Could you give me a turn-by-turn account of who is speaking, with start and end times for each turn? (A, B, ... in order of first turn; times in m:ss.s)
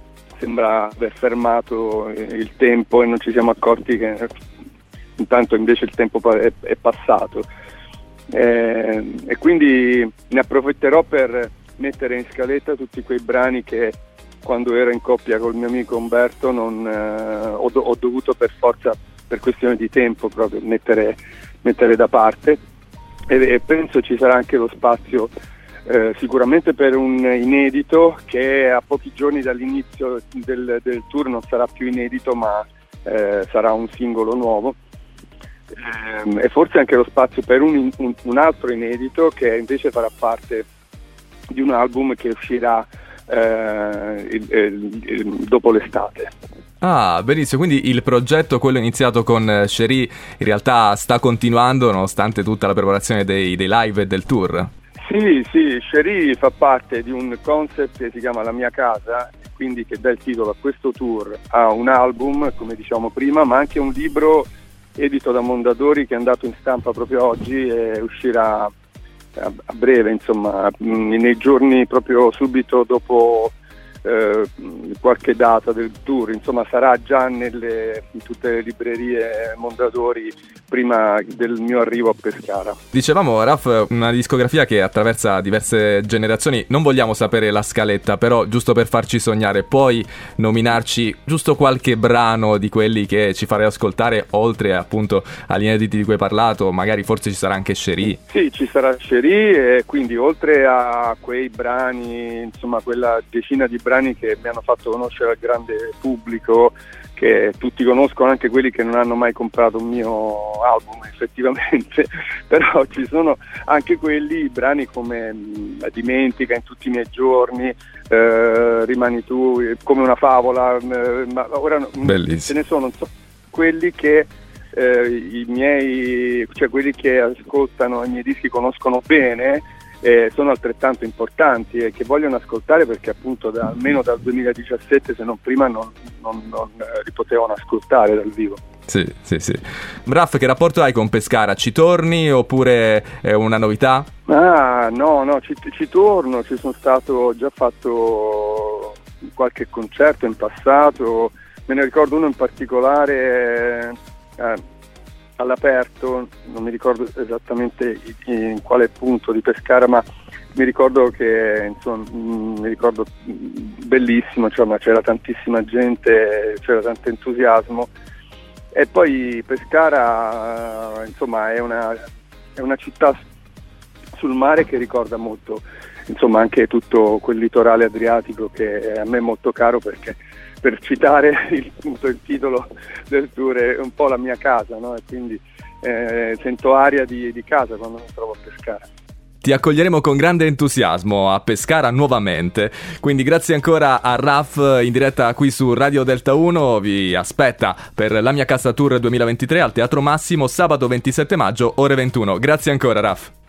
0:00.4-0:04.3 A
0:05.2-0:07.5 A
0:08.3-0:22.6 A
0:23.3-0:25.3 A
0:25.9-0:34.8 A
0:35.8-0:40.7 A
0:41.5-0:46.3 A
0:46.8-0:54.7 B
0:55.0-1:08.7 A
1:09.4-1:22.8 A
1:22.9-1:38.2 B
1:38.3-2:18.6 A
2:02.0-2:02.5 B
2:18.9-2:24.1 B
2:24.3-2:34.6 A
2:35.4-2:47.9 A
2:48.7-2:52.0 A
2:52.6-2:53.2 A
2:54.2-3:08.8 A
3:09.4-3:23.3 B